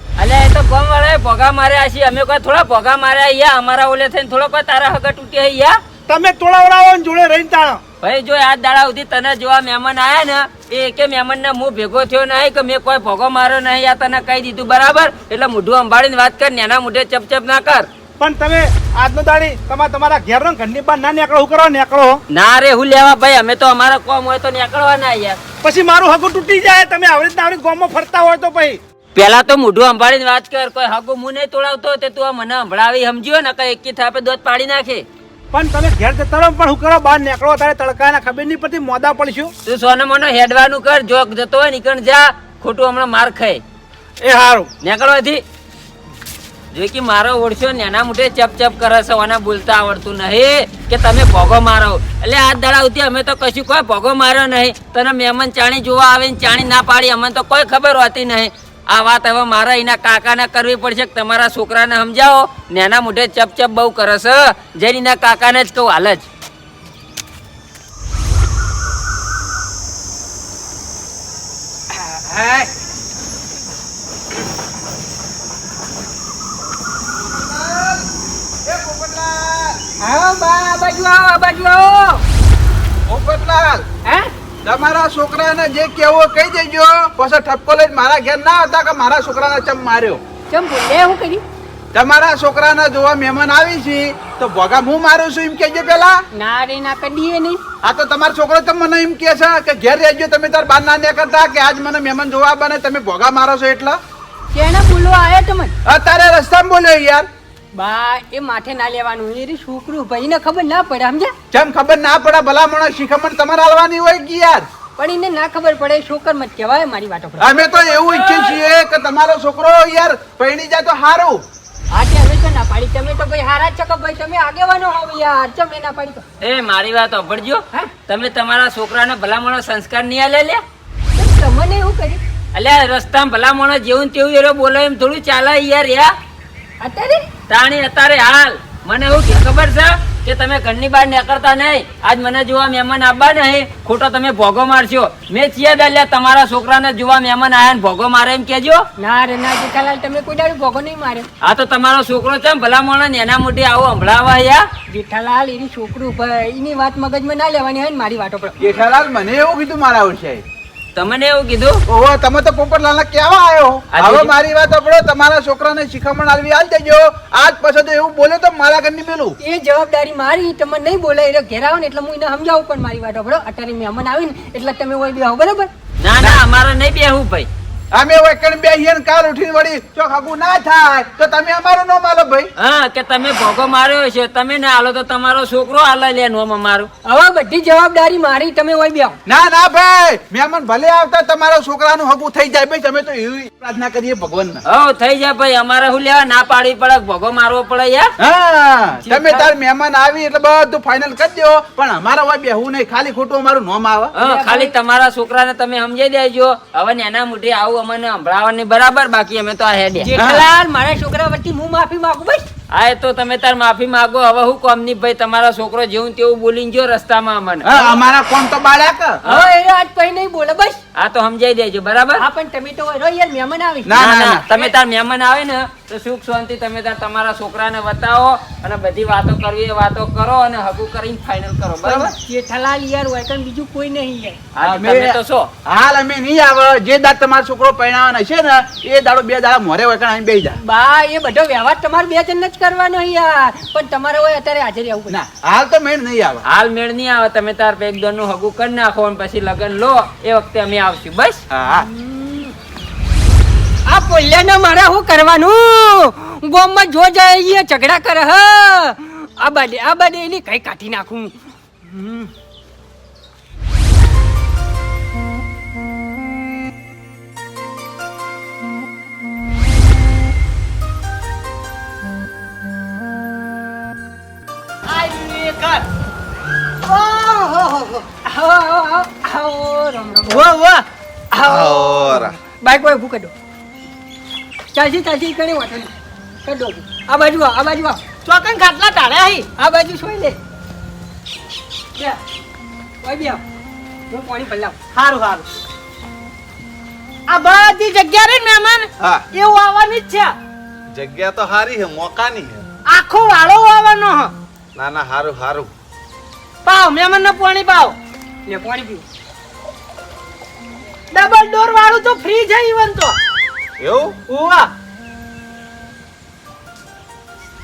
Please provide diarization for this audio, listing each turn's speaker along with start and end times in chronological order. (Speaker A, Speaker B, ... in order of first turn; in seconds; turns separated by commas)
Speaker A: 0.2-5.8, Speaker B: 6.1-7.8, Speaker A: 8.0-17.9, Speaker B: 18.2-22.2, Speaker A: 22.3-25.4, Speaker B: 25.6-28.8, Speaker A: 29.1-35.0, Speaker B: 35.5-39.5, Speaker A: 39.6-43.6, Speaker B: 44.2-44.7, Speaker A: 44.8-45.4, Speaker A: 46.7-66.3, Speaker C: 71.9-72.7, Speaker D: 77.3-78.0, Speaker D: 78.6-79.8, Speaker C: 80.0-82.2, Speaker D: 83.1-83.8, Speaker D: 84.6-90.2, Speaker C: 90.5-91.4, Speaker D: 91.9-96.2, Speaker C: 96.3-97.6, Speaker D: 97.8-104.0, Speaker C: 104.5-105.7, Speaker D: 105.8-107.3, Speaker C: 107.7-111.3, Speaker D: 111.5-114.7, Speaker C: 115.0-118.5, Speaker D: 117.4-121.4, Speaker C: 121.9-126.2, Speaker A: 126.4-130.6, Speaker C: 131.1-132.2, Speaker A: 132.5-136.1, Speaker C: 136.8-137.2, Speaker A: 137.5-148.8, Speaker C: 149.0-151.3, Speaker A: 151.4-154.7, Speaker C: 154.9-158.6, Speaker D: 158.6-160.4, Speaker A: 160.9-161.8, Speaker D: 161.9-169.4, Speaker A: 163.9-164.3, Speaker C: 169.4-175.7, Speaker A: 176.0-177.5, Speaker D: 177.9-182.5, Speaker A: 182.6-186.9, Speaker C: 187.1-189.2, Speaker D: 189.2-194.6, Speaker A: 194.7-198.1, Speaker D: 198.2-204.1, Speaker C: 199.0-199.5, Speaker A: 204.1-210.1, Speaker C: 204.2-204.7, Speaker C: 210.0-212.5, Speaker D: 210.1-210.5, Speaker A: 212.7-217.7, Speaker D: 217.6-219.2, Speaker A: 219.2-219.5, Speaker C: 219.2-220.8, Speaker A: 220.9-222.2, Speaker C: 222.2-223.9, Speaker D: 223.8-224.4, Speaker A: 224.0-232.1, Speaker C: 231.8-234.4, Speaker A: 234.6-235.5, Speaker D: 234.6-240.6, Speaker C: 240.6-245.1, Speaker D: 245.1-246.4, Speaker A: 246.4-251.4, Speaker D: 251.5-251.9, Speaker C: 252.0-252.5, Speaker C: 253.9-262.3, Speaker E: 274.9-275.9, Speaker E: 276.8-278.1, Speaker C: 278.2-280.5, Speaker E: 280.3-280.8, Speaker C: 281.3-283.3, Speaker F: 281.4-282.4, Speaker C: 284.7-285.9, Speaker C: 286.4-288.0, Speaker E: 288.2-289.4, Speaker C: 289.6-290.4, Speaker C: 293.0-293.4, Speaker C: 294.1-294.8, Speaker E: 294.9-295.4, Speaker E: 297.3-300.3, Speaker F: 300.9-302.6, Speaker E: 302.9-304.3, Speaker F: 304.8-305.7, Speaker E: 306.6-307.9, Speaker C: 308.5-309.0, Speaker E: 311.1-313.1, Speaker F: 313.8-314.1, Speaker E: 314.3-314.7